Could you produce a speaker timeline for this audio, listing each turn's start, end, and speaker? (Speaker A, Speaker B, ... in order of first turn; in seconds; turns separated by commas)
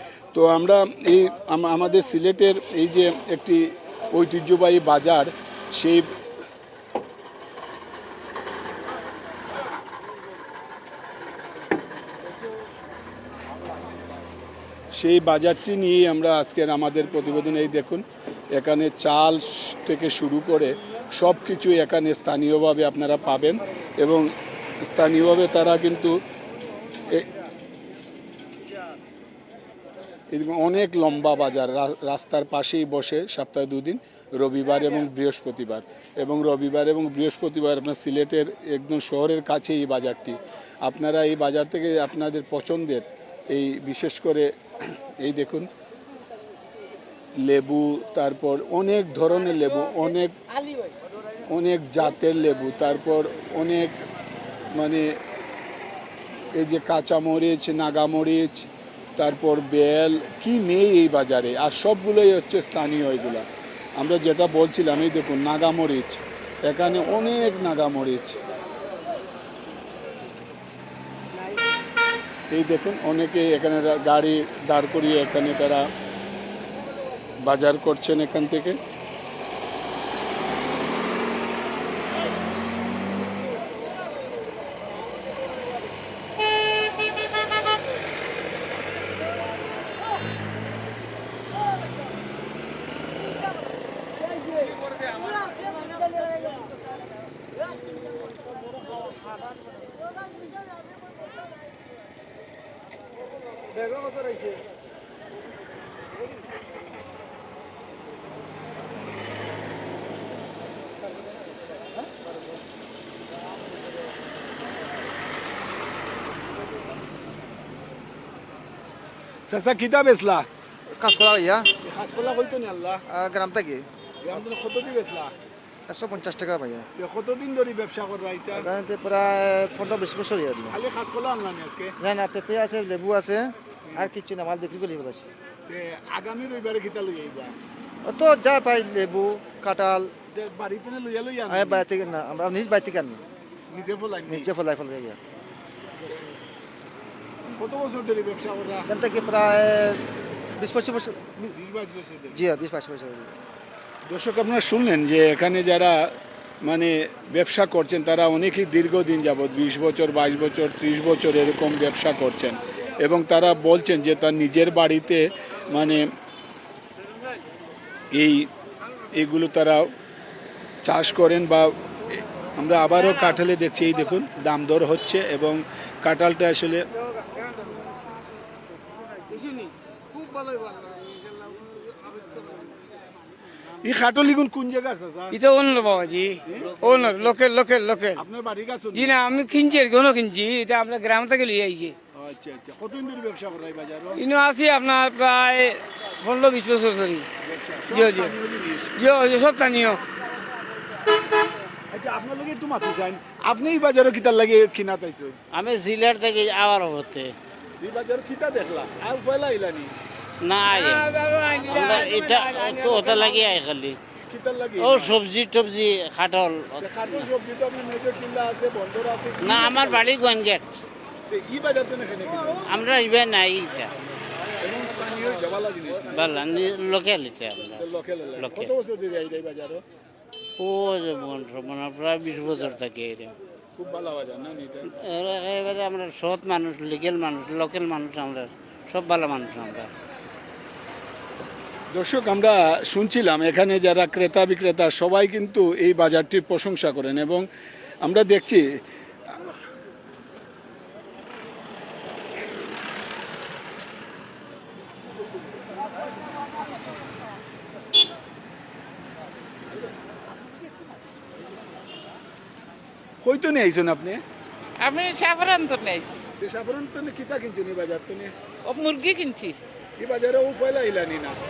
Speaker A: 0.3-6.1, Speaker A: 14.9-18.0, Speaker A: 18.5-24.3, Speaker A: 24.8-26.1, Speaker A: 30.3-45.7, Speaker A: 47.4-50.4, Speaker A: 51.5-54.0, Speaker A: 54.7-55.1, Speaker A: 56.5-63.5, Speaker A: 64.0-68.4, Speaker A: 72.5-75.9, Speaker A: 77.4-78.8, Speaker A: 119.5-120.5, Speaker B: 120.9-121.7, Speaker A: 121.8-123.0, Speaker B: 123.1-123.8, Speaker A: 124.2-125.3, Speaker B: 125.9-126.9, Speaker A: 127.0-128.7, Speaker B: 128.5-130.8, Speaker A: 130.7-131.9, Speaker B: 132.0-135.3, Speaker A: 135.7-137.5, Speaker B: 138.0-140.1, Speaker A: 140.3-141.8, Speaker B: 141.5-143.2, Speaker A: 143.7-144.5, Speaker B: 144.3-145.2, Speaker A: 147.4-148.9, Speaker B: 148.8-150.0, Speaker B: 150.6-151.5, Speaker A: 151.5-152.5, Speaker B: 152.3-153.3, Speaker A: 154.1-156.0, Speaker A: 156.6-166.0, Speaker A: 168.1-168.4, Speaker A: 169.1-169.9, Speaker A: 170.8-176.8, Speaker A: 180.2-180.9, Speaker A: 183.8-185.3, Speaker C: 185.3-188.2, Speaker A: 186.4-187.4, Speaker A: 188.2-189.2, Speaker C: 188.9-191.9, Speaker A: 192.1-194.2, Speaker C: 194.2-197.3, Speaker A: 197.4-199.0, Speaker C: 197.9-198.3, Speaker C: 199.0-200.0, Speaker A: 201.9-205.4, Speaker D: 205.5-207.3, Speaker A: 207.8-209.9, Speaker D: 210.4-211.1, Speaker C: 210.7-213.4, Speaker D: 211.7-214.0, Speaker A: 211.8-213.4, Speaker A: 214.2-215.2, Speaker D: 214.8-217.3, Speaker A: 216.8-220.1, Speaker D: 219.4-220.8, Speaker A: 221.3-222.8, Speaker D: 222.6-223.9, Speaker A: 224.6-226.3, Speaker D: 226.1-228.7, Speaker A: 227.8-229.8, Speaker D: 230.6-233.3, Speaker A: 233.8-234.9, Speaker D: 235.0-239.9, Speaker A: 241.9-247.4, Speaker A: 248.0-248.6, Speaker A: 263.2-264.2, Speaker E: 264.8-266.2, Speaker A: 266.4-268.3, Speaker E: 268.6-269.6, Speaker A: 270.0-271.4